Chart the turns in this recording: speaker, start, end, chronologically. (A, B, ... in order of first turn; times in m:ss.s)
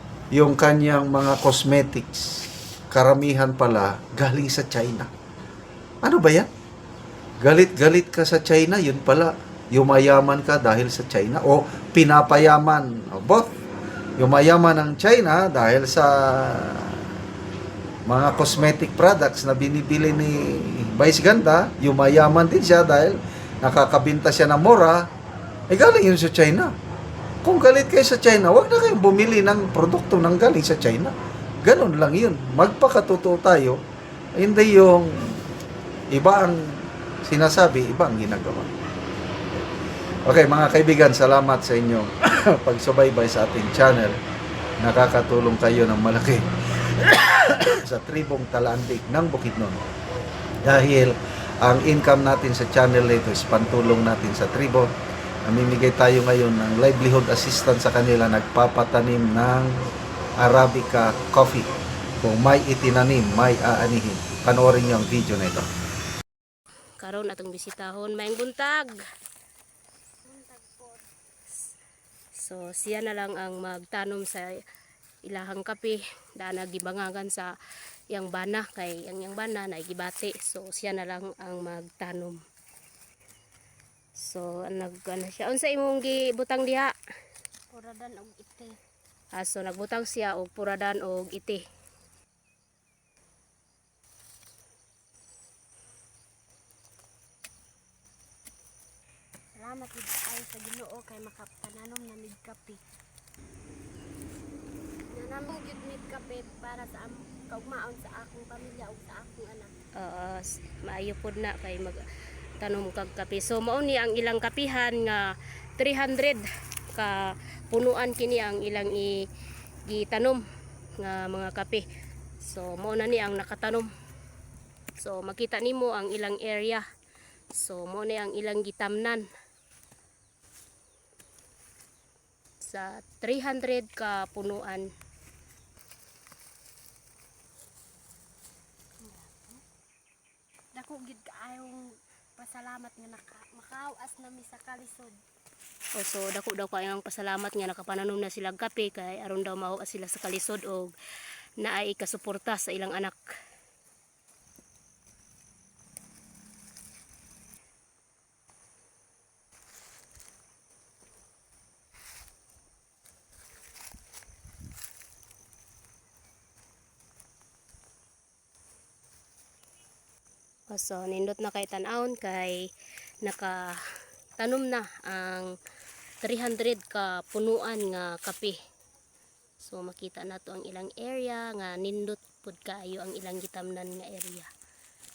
0:00.3-0:05.1 A
0:06.0-0:06.5 A
0:07.4-0:13.5 A
0:14.2-0:17.1 A
0:18.1-0:25.0 A
0:25.7-0:26.7 A
0:27.4-0:33.8 A
0:34.4-0:35.4 A
0:36.1-0:38.7 A
0:40.2-0:44.2 A
0:44.8-0:49.8 A
0:50.6-0:54.9 A
0:55.5-0:59.9 A
1:00.4-1:01.7 A
1:02.2-1:05.7 A
1:07.0-1:08.9 B
1:10.2-1:11.0 C
1:12.3-1:14.6 B
1:15.2-1:17.5 B
1:18.1-1:22.4 B
1:24.2-1:26.9 B
1:27.7-1:28.7 C
1:29.3-1:31.6 B
1:39.6-1:42.8 C
1:45.1-1:49.7 C
1:50.0-1:52.0 B
1:52.6-1:59.2 B
1:59.9-2:00.4 B
2:01.0-2:01.9 B
2:02.4-2:03.9 B
2:05.0-2:06.8 B
2:07.5-2:09.2 B
2:12.6-2:14.9 B
2:19.0-2:19.6 C
2:20.7-2:25.2 C
2:25.9-2:30.9 B
2:31.6-2:33.2 B
2:50.7-2:52.7 B
2:53.2-2:53.8 B
2:54.4-2:55.5 B
2:56.2-2:58.6 B
2:59.6-3:04.5 B